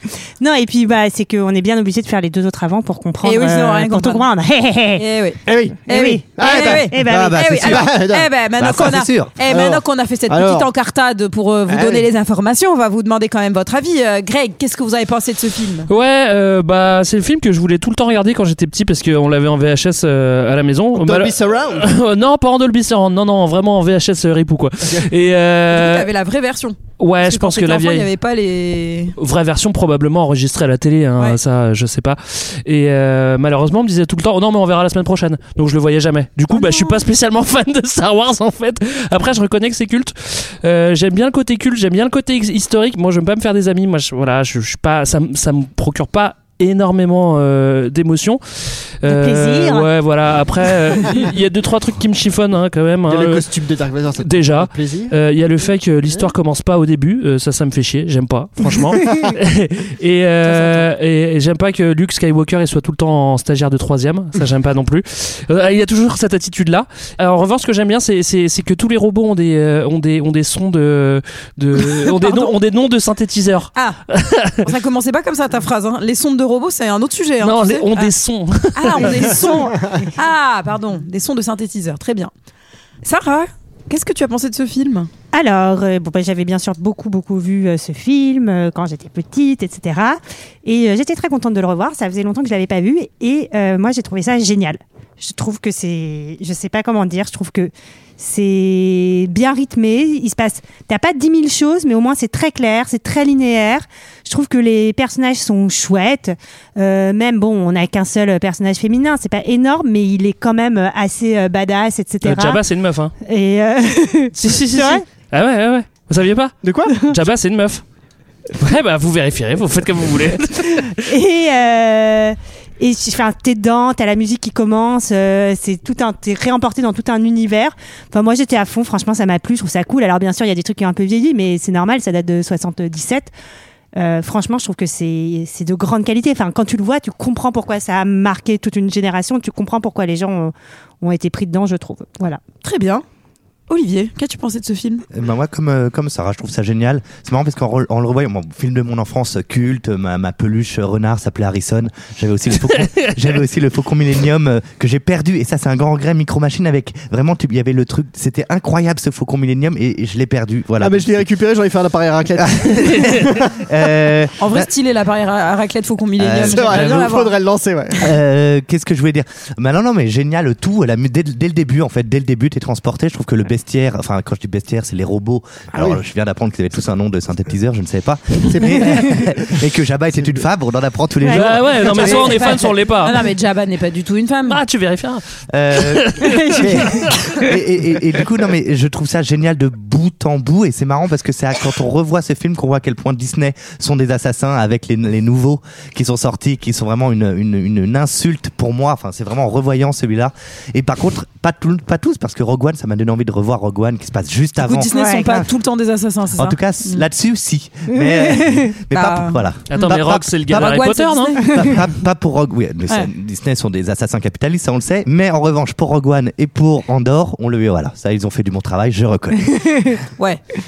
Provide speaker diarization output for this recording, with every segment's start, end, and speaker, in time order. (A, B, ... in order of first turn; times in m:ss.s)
0:00.4-0:05.1 A
0:03.2-0:04.3 B
0:05.0-0:15.9 B
0:05.5-0:08.3 C
0:05.8-0:07.7 A
0:07.0-0:07.9 D
0:08.6-0:09.4 D
0:09.4-0:10.7 C
0:11.7-0:12.1 C
0:15.9-0:26.1 E
0:20.9-0:21.9 C
0:25.7-0:29.1 B
0:27.0-0:28.1 E
0:29.2-0:53.5 E
0:36.5-0:37.0 B
0:49.1-0:49.9 A
0:53.1-0:55.1 C
0:54.2-1:14.7 E
0:58.9-0:59.3 C
1:00.5-1:00.9 C
1:12.0-1:12.5 B
1:14.6-1:18.1 B
1:17.4-1:19.2 E
1:18.7-1:22.3 B
1:19.2-1:19.5 A
1:23.0-1:25.1 B
1:25.3-1:52.6 A
1:52.2-1:53.1 E
1:53.2-1:55.0 A
1:54.4-1:57.8 E
1:56.6-1:56.9 C
1:56.9-1:57.2 A
1:58.6-2:00.9 E
2:01.0-2:13.3 A
2:14.0-2:22.4 A
2:22.6-2:23.0 B
2:23.7-2:25.0 B
2:25.1-2:41.1 D
2:40.8-2:43.5 C
2:42.4-2:44.7 D
2:44.4-2:47.3 B
2:46.2-2:46.6 D
2:46.3-2:48.1 C
2:48.0-3:02.6 D
2:55.7-2:56.0 C
2:58.6-2:58.9 C
3:01.3-3:03.3 E
3:01.8-3:04.6 B
3:04.5-3:07.2 E
3:05.5-3:24.9 D
3:24.6-3:27.0 B
3:24.9-3:25.5 A
3:26.4-3:39.8 D
3:28.0-3:28.6 A
3:28.9-3:29.4 B
3:29.7-3:31.4 E
3:30.6-3:31.8 B